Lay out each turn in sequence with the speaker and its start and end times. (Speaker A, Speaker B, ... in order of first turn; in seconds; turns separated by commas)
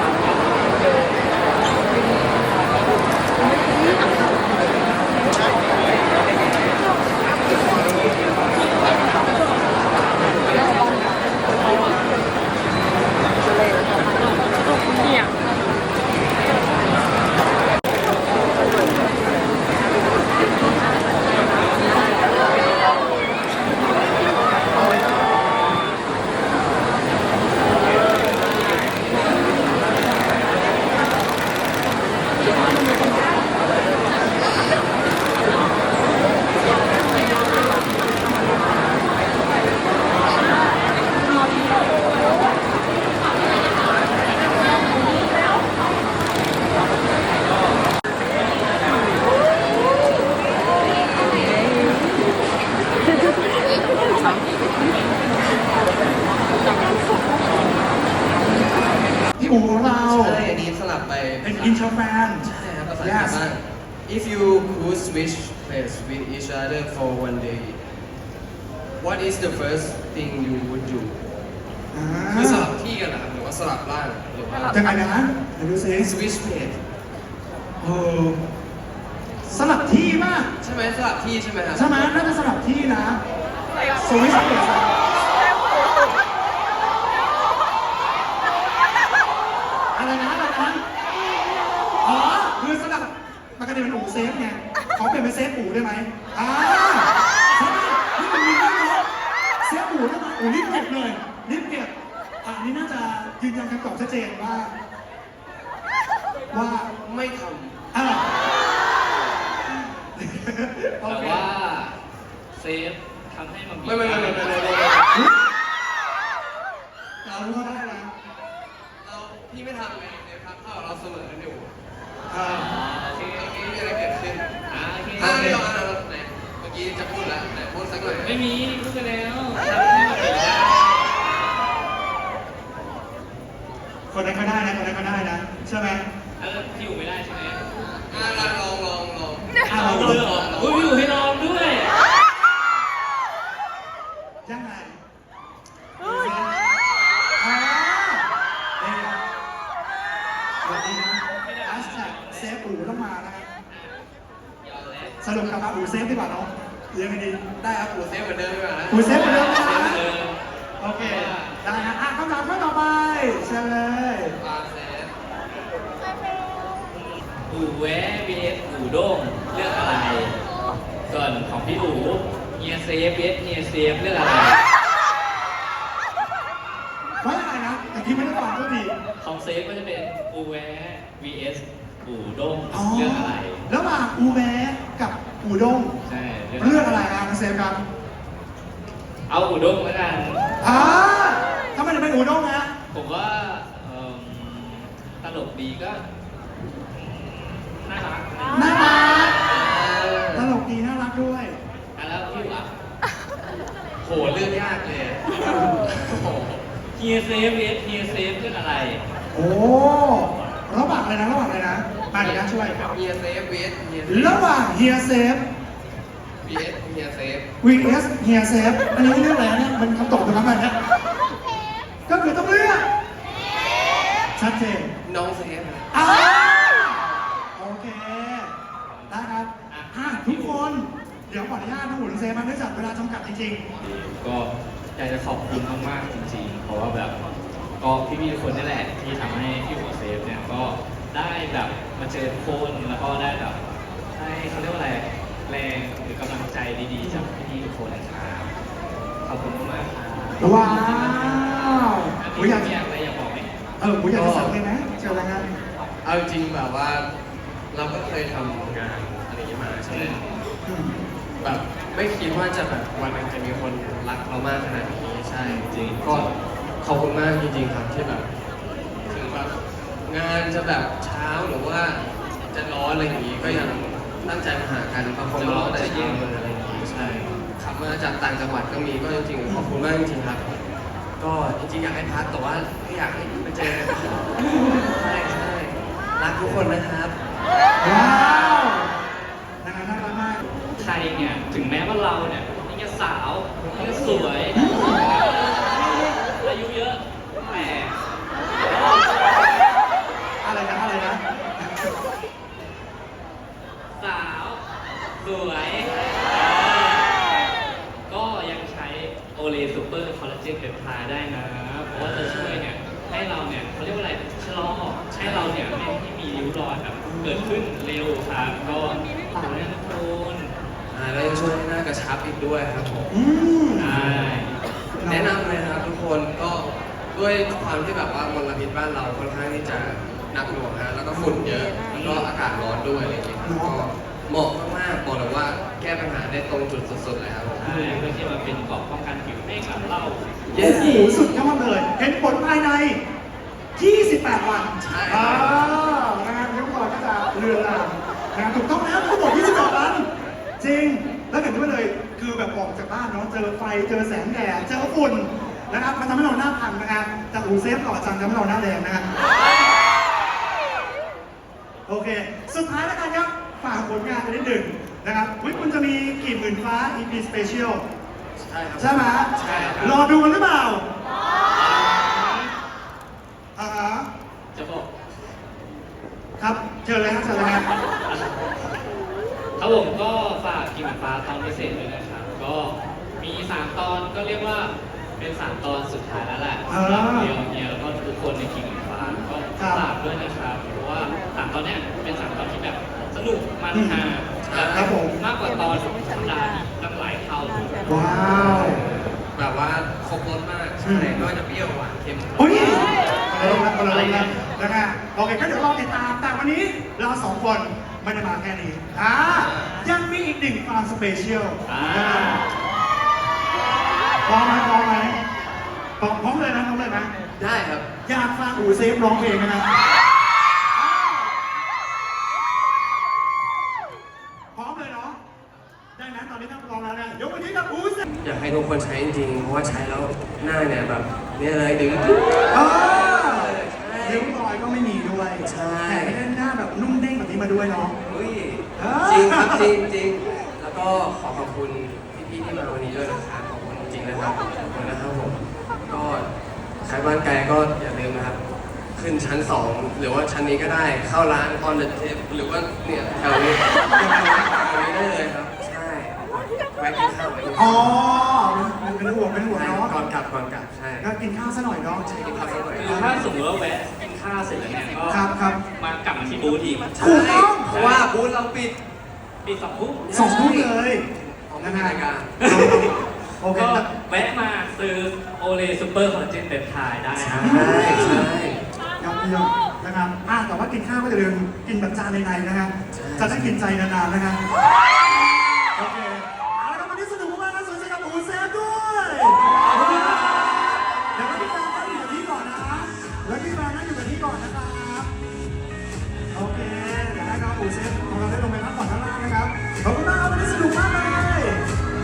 Speaker A: 24.8-25.1, Speaker A: 59.4-60.4, Speaker B: 60.0-61.9, Speaker A: 61.4-63.4, Speaker B: 62.4-67.8, Speaker B: 69.0-71.2, Speaker A: 71.9-72.7, Speaker B: 72.3-74.8, Speaker A: 74.7-76.1, Speaker B: 76.0-76.8, Speaker A: 77.8-78.4, Speaker A: 79.4-80.5, Speaker B: 80.6-82.2, Speaker A: 81.7-83.2, Speaker A: 84.0-84.9, Speaker A: 89.9-90.8, Speaker A: 92.0-99.0, Speaker A: 99.6-101.9, Speaker A: 102.4-104.7, Speaker A: 106.5-106.9, Speaker B: 107.0-107.8, Speaker A: 107.9-108.3, Speaker A: 109.7-111.5, Speaker C: 111.0-112.0, Speaker C: 112.5-114.7, Speaker B: 113.8-115.1, Speaker A: 117.2-118.1, Speaker B: 119.0-121.7, Speaker A: 122.3-122.7, Speaker C: 122.5-123.6, Speaker B: 123.3-124.5, Speaker C: 124.7-125.6, Speaker B: 125.2-128.4, Speaker A: 125.2-125.6, Speaker C: 128.1-131.1, Speaker B: 129.6-130.5, Speaker A: 134.1-136.0, Speaker C: 136.4-137.6, Speaker B: 138.1-140.9, Speaker C: 138.1-138.6, Speaker C: 139.6-141.9, Speaker A: 139.7-140.2, Speaker A: 144.4-145.0, Speaker A: 146.0-146.6, Speaker A: 147.4-148.2, Speaker A: 148.8-149.2, Speaker A: 150.6-153.5, Speaker C: 151.3-152.6, Speaker C: 153.7-154.0, Speaker C: 154.6-155.2, Speaker A: 155.2-157.4, Speaker B: 157.6-159.9, Speaker A: 158.9-160.0, Speaker C: 159.1-160.4, Speaker A: 160.8-164.3, Speaker C: 160.9-161.6, Speaker B: 164.4-165.1, Speaker C: 167.4-170.3, Speaker C: 171.1-174.6, Speaker A: 177.2-178.9, Speaker C: 179.2-183.6, Speaker A: 182.7-185.9, Speaker C: 186.0-187.0, Speaker A: 186.6-187.8, Speaker C: 189.3-190.5, Speaker A: 190.6-192.7, Speaker C: 192.9-196.0, Speaker C: 196.9-199.8, Speaker A: 198.5-199.3, Speaker B: 199.5-200.5, Speaker A: 200.3-201.6, Speaker C: 201.9-202.7, Speaker B: 204.0-206.6, Speaker C: 206.9-209.0, Speaker A: 209.3-212.9, Speaker B: 212.1-214.4, Speaker A: 214.1-215.4, Speaker B: 216.4-217.5, Speaker A: 217.6-220.8, Speaker A: 222.1-222.9, Speaker A: 224.4-224.9, Speaker B: 225.0-225.9, Speaker A: 225.9-228.5, Speaker C: 228.8-230.7, Speaker A: 229.1-233.6, Speaker C: 233.8-237.2, Speaker C: 237.8-243.6, Speaker C: 244.1-248.5, Speaker C: 249.2-251.6, Speaker A: 250.4-252.7, Speaker C: 252.2-253.5, Speaker A: 253.8-255.5, Speaker B: 254.1-254.6, Speaker B: 256.0-257.1, Speaker B: 257.7-260.2, Speaker C: 259.9-260.4, Speaker A: 260.6-260.9, Speaker B: 261.4-266.3, Speaker C: 265.6-266.3, Speaker B: 266.8-268.3, Speaker B: 269.1-280.4, Speaker C: 273.4-273.7, Speaker C: 275.3-276.3, Speaker C: 276.9-277.4, Speaker B: 281.2-287.1, Speaker A: 287.8-288.9, Speaker A: 289.6-290.4, Speaker C: 290.8-298.0, Speaker A: 294.5-295.0, Speaker C: 298.6-299.4, Speaker A: 300.4-301.9, Speaker C: 303.9-304.6, Speaker C: 305.2-307.5, Speaker C: 308.1-320.5, Speaker B: 311.9-312.6, Speaker B: 315.1-315.5, Speaker A: 317.0-317.6, Speaker B: 320.9-323.1, Speaker A: 323.1-324.0, Speaker C: 323.8-324.5, Speaker A: 325.0-325.3, Speaker B: 325.0-337.6, Speaker A: 331.1-331.4, Speaker C: 331.9-332.3, Speaker A: 333.4-333.8, Speaker C: 337.6-341.0, Speaker A: 337.6-338.1, Speaker B: 340.5-341.1, Speaker A: 340.6-343.0, Speaker A: 343.8-350.1, Speaker B: 344.8-345.8, Speaker A: 350.6-359.1, Speaker A: 361.9-367.8, Speaker B: 365.4-365.7, Speaker B: 368.4-370.0, Speaker A: 368.8-370.8, Speaker C: 369.4-369.9, Speaker C: 371.5-372.5, Speaker A: 373.6-374.1, Speaker C: 374.5-374.9, Speaker A: 376.4-377.7, Speaker C: 378.0-378.3, Speaker C: 379.6-398.5, Speaker A: 386.7-387.3, Speaker A: 389.6-389.9, Speaker A: 393.7-394.0, Speaker B: 394.4-394.9, Speaker A: 394.7-395.1, Speaker A: 397.9-398.8, Speaker B: 399.4-402.9, Speaker A: 400.8-401.2, Speaker A: 402.4-412.4, Speaker C: 403.4-404.4, Speaker B: 409.3-409.8, Speaker C: 411.6-412.5, Speaker A: 414.2-415.2, Speaker A: 416.0-417.1, Speaker B: 417.4-417.9, Speaker A: 418.1-419.7, Speaker A: 420.7-421.4, Speaker A: 424.5-425.2, Speaker A: 425.9-428.1, Speaker B: 428.2-434.3, Speaker A: 432.5-437.9, Speaker B: 435.4-436.2, Speaker B: 438.1-446.3, Speaker A: 438.8-439.7, Speaker B: 446.8-448.4, Speaker B: 448.9-453.7, Speaker A: 454.0-454.6, Speaker B: 454.4-458.0, Speaker A: 457.5-459.9, Speaker B: 459.5-461.1, Speaker A: 461.0-462.1, Speaker B: 461.9-462.9, Speaker C: 462.8-465.2, Speaker A: 462.9-463.2, Speaker A: 465.1-465.6, Speaker C: 465.8-466.9, Speaker B: 466.9-468.8, Speaker A: 467.0-467.7, Speaker C: 467.7-468.1, Speaker C: 469.4-470.0, Speaker B: 470.0-472.4, Speaker A: 470.1-471.0, Speaker A: 471.6-473.9, Speaker C: 472.4-472.9, Speaker C: 473.4-478.1, Speaker B: 477.1-478.6, Speaker A: 477.4-478.3, Speaker A: 479.0-484.4, Speaker B: 482.9-483.6, Speaker A: 485.7-495.1, Speaker C: 489.6-490.5, Speaker A: 496.3-501.6